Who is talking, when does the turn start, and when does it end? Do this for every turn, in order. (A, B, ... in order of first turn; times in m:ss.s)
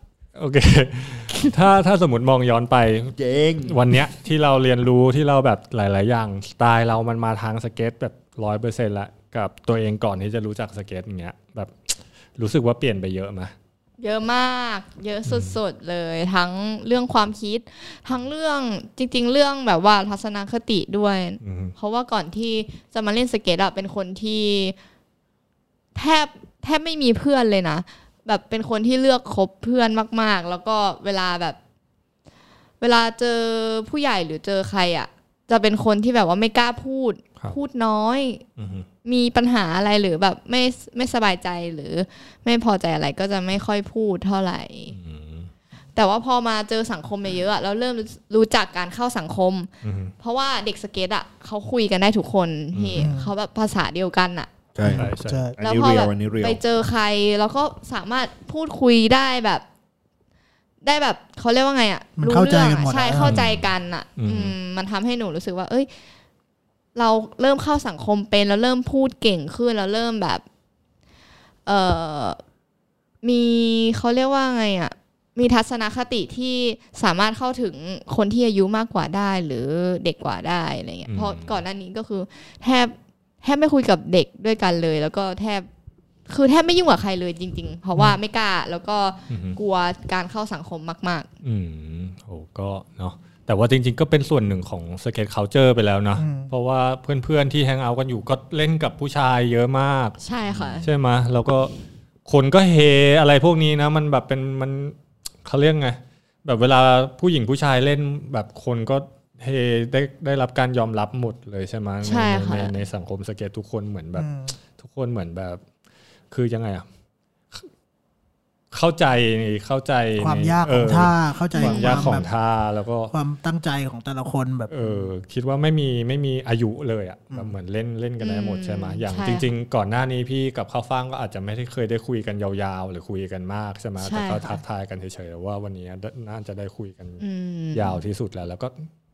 0:00.3-0:13.5 A
0:03.2-0:03.8 B
0:14.0-0:24.7 C
0:15.3-0:15.6 A
0:21.4-0:21.7 A
0:25.9-0:31.6 C
0:32.8-0:38.4 C
0:38.6-0:38.9 A
0:39.0-0:44.9 C
0:44.9-0:45.5 A
0:46.0-0:54.5 C
0:49.8-0:50.1 A
0:52.7-0:53.1 A
0:52.9-0:53.3 D
0:54.7-0:56.6 B
0:54.8-0:55.6 D
0:55.0-0:55.4 A
0:55.6-0:59.6 C
1:00.8-1:05.9 C
1:02.2-1:03.4 D
1:03.2-1:03.6 A
1:04.2-1:04.5 A
1:06.9-1:10.4 C
1:11.6-1:12.4 C
1:13.2-1:25.7 C
1:21.1-1:21.5 A
1:26.3-1:31.3 C
1:29.3-1:29.6 A
1:31.4-1:41.7 A
1:36.2-1:36.5 D
1:40.2-1:40.9 C
1:42.2-1:55.6 A
1:52.0-1:52.7 C
1:54.2-1:54.5 D
1:56.3-1:56.8 A
1:58.7-2:03.1 A
2:00.2-2:02.3 D
2:01.6-2:02.2 C
2:03.1-2:05.1 D
2:04.7-2:18.8 A
2:08.2-2:09.5 C
2:14.0-2:14.5 C
2:17.2-2:18.0 C